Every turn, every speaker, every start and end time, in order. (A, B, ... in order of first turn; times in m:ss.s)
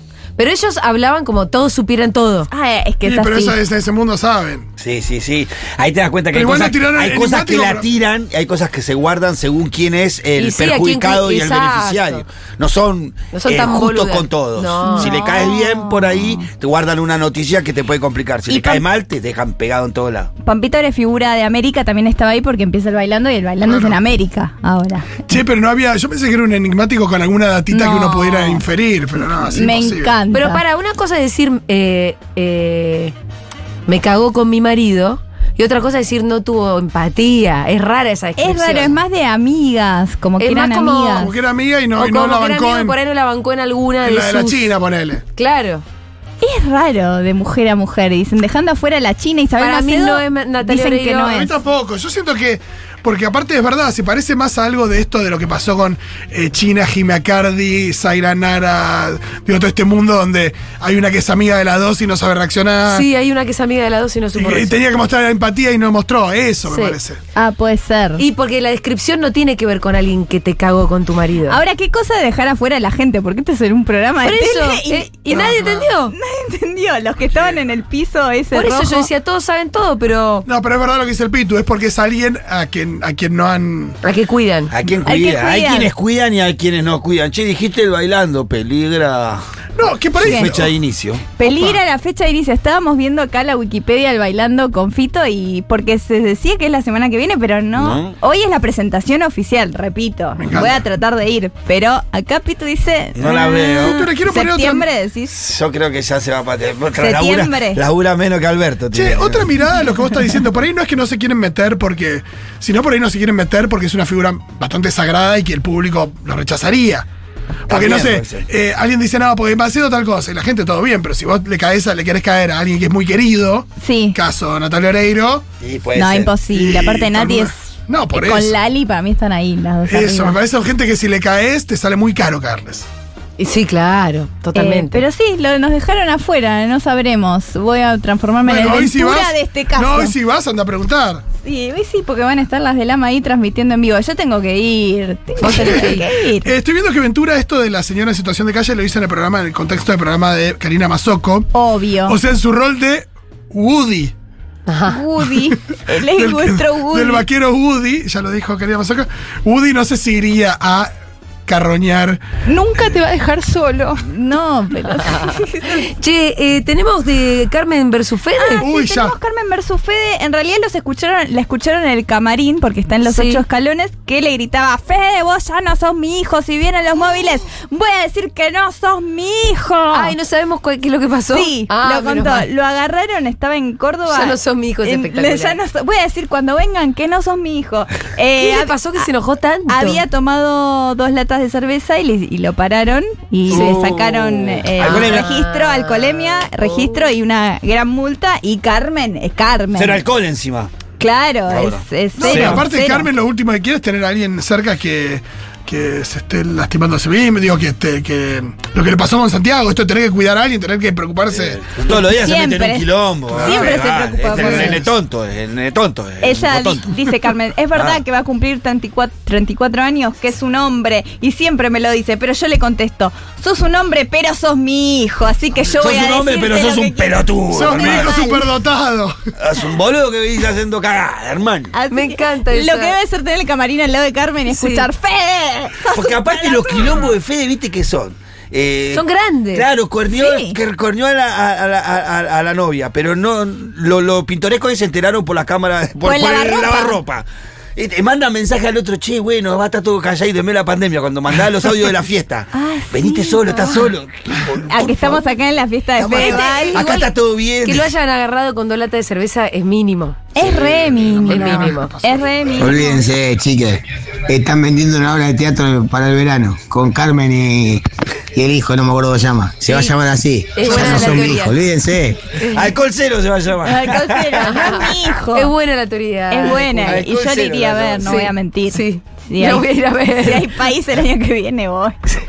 0:00.4-0:02.5 A
0:02.5-0:03.6 B
0:03.0-0:04.7 C
0:04.8-0:20.3 D
0:06.3-0:07.9 C
0:10.4-0:12.2 A
0:13.3-0:15.1 A
0:14.8-0:16.4 B
0:18.5-0:18.8 B
0:20.4-0:25.2 B
0:23.6-0:24.0 C
0:25.3-0:30.2 C
0:27.7-0:28.6 B
0:29.4-0:30.6 B
0:30.3-0:33.1 A
0:33.9-0:38.9 A
0:38.4-0:41.3 B
0:40.4-0:41.3 A
0:41.1-0:43.0 C
0:42.0-0:44.7 A
0:44.0-0:45.2 C
0:45.4-0:45.8 A
0:46.4-0:51.5 B
0:49.6-0:51.3 A
0:51.2-1:03.0 C
1:02.9-1:04.8 A
1:04.3-1:07.2 C
1:06.6-1:07.0 A
1:07.3-1:08.2 B
1:08.2-1:11.6 A
1:11.4-1:15.6 B
1:14.2-1:16.1 A
1:15.3-1:15.9 C
1:16.1-1:19.1 B
1:18.5-1:20.4 A
1:20.4-1:24.0 C
1:24.0-1:24.7 A
1:24.7-1:29.4 D
1:25.0-1:25.9 B
1:29.8-1:30.8 C
1:30.2-1:31.3 D
1:30.2-1:30.5 B
1:31.4-1:45.3 B
1:31.4-1:31.8 C
1:37.7-1:38.1 D
1:40.4-1:40.8 C
1:43.2-1:44.0 D
1:43.8-1:44.9 C
1:45.3-1:49.5 D
1:47.0-1:47.8 B
1:48.9-1:57.1 C
1:57.7-1:58.5 D
1:57.7-2:05.4 C
2:03.8-2:04.2 B
2:05.6-2:06.4 D
2:06.0-2:07.5 B
2:06.5-2:08.5 C
2:08.1-2:10.4 B
2:09.9-2:12.8 C
2:13.4-2:15.0 A
2:14.5-2:20.2 B
2:18.4-2:21.2 C
2:21.4-2:26.5 B
2:25.4-2:31.5 C
2:25.4-2:26.0 A
2:31.5-2:32.2 B
2:32.0-2:34.1 C
2:34.7-2:35.0 A
2:34.8-2:37.2 B
2:35.9-2:40.9 C
2:41.5-2:42.2 C
2:44.0-2:45.8 B
2:45.7-2:48.7 A
2:48.4-3:00.1 B
2:48.6-2:49.1 C
2:53.1-2:53.4 A
2:59.9-3:02.5 A
3:01.3-3:09.0 B
3:04.1-3:05.6 A
3:08.4-3:10.0 A
3:09.7-3:20.0 B
3:13.5-3:15.3 D
3:14.8-3:16.5 A
3:19.7-3:20.7 D
3:21.0-3:23.1 B
3:21.5-3:22.6 D
3:22.2-3:31.7 C
3:31.3-3:36.9 D
3:31.9-3:34.9 B
3:33.3-3:34.8 C
3:36.2-3:48.5 B
3:37.7-3:38.0 D
3:45.8-3:48.1 D
3:47.5-3:49.1 C
3:49.4-3:51.7 D
3:51.7-3:57.1 B
3:51.9-3:53.0 A
3:54.5-3:54.9 A
3:55.9-4:07.2 D
3:58.9-3:59.7 A
4:00.1-4:00.6 B
4:06.0-4:07.0 B
4:07.8-4:15.2 D
4:12.5-4:13.7 B
4:14.6-4:16.8 B
4:16.0-4:17.9 D
4:16.1-4:20.4 A
4:20.3-4:23.0 B
4:20.4-4:20.8 D
4:20.5-4:22.4 C
4:21.2-4:22.0 A
4:22.5-4:32.2 E
4:29.7-4:29.9 A
4:30.5-4:31.6 A
4:30.7-4:31.1 B
4:32.4-4:34.9 D
4:32.4-4:32.7 A
4:33.6-4:35.5 B
4:34.4-4:37.0 A
4:36.3-4:42.1 B
4:36.8-4:38.3 D
4:38.0-4:40.5 A